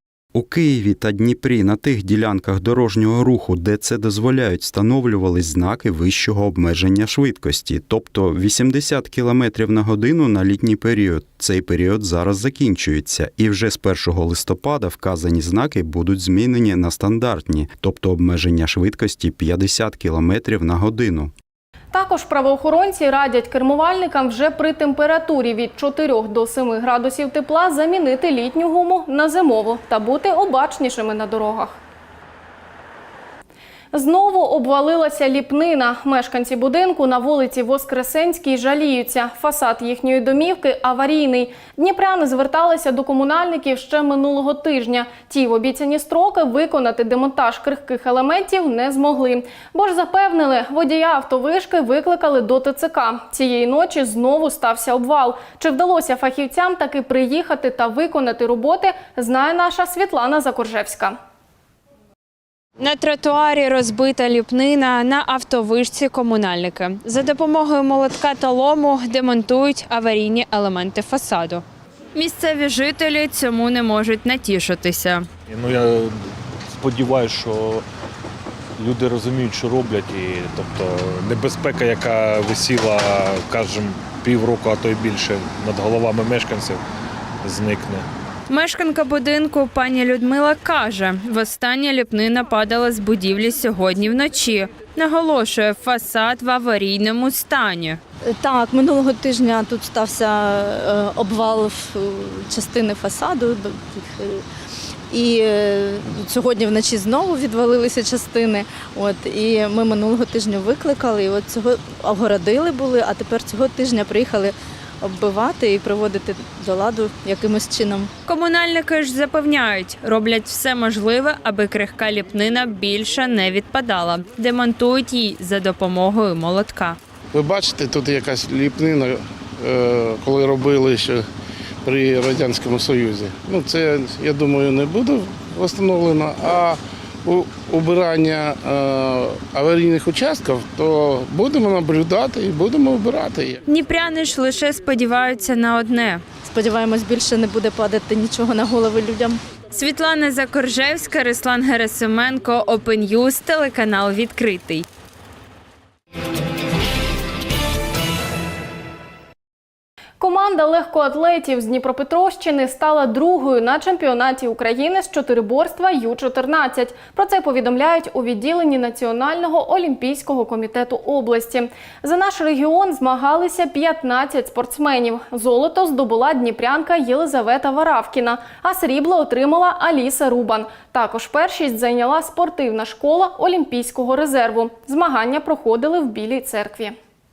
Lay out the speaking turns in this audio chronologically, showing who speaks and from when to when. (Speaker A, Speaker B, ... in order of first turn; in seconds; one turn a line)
Speaker A: 0.3-21.3
Speaker B: 21.9-31.8
Speaker B: 33.9-61.1
Speaker C: 62.8-71.6
Speaker C: 72.1-75.3
Speaker D: 76.8-77.7
Speaker D: 78.8-81.3
Speaker D: 81.9-82.9
Speaker D: 83.5-86.7
Speaker C: 88.5-98.0
Speaker E: 98.3-104.4
Speaker E: 105.1-118.1
Speaker C: 118.3-127.0
Speaker F: 127.3-131.2
Speaker F: 131.8-143.6
Speaker C: 143.7-146.2
Speaker E: 146.4-149.4
Speaker C: 149.7-154.8
Speaker B: 160.2-186.9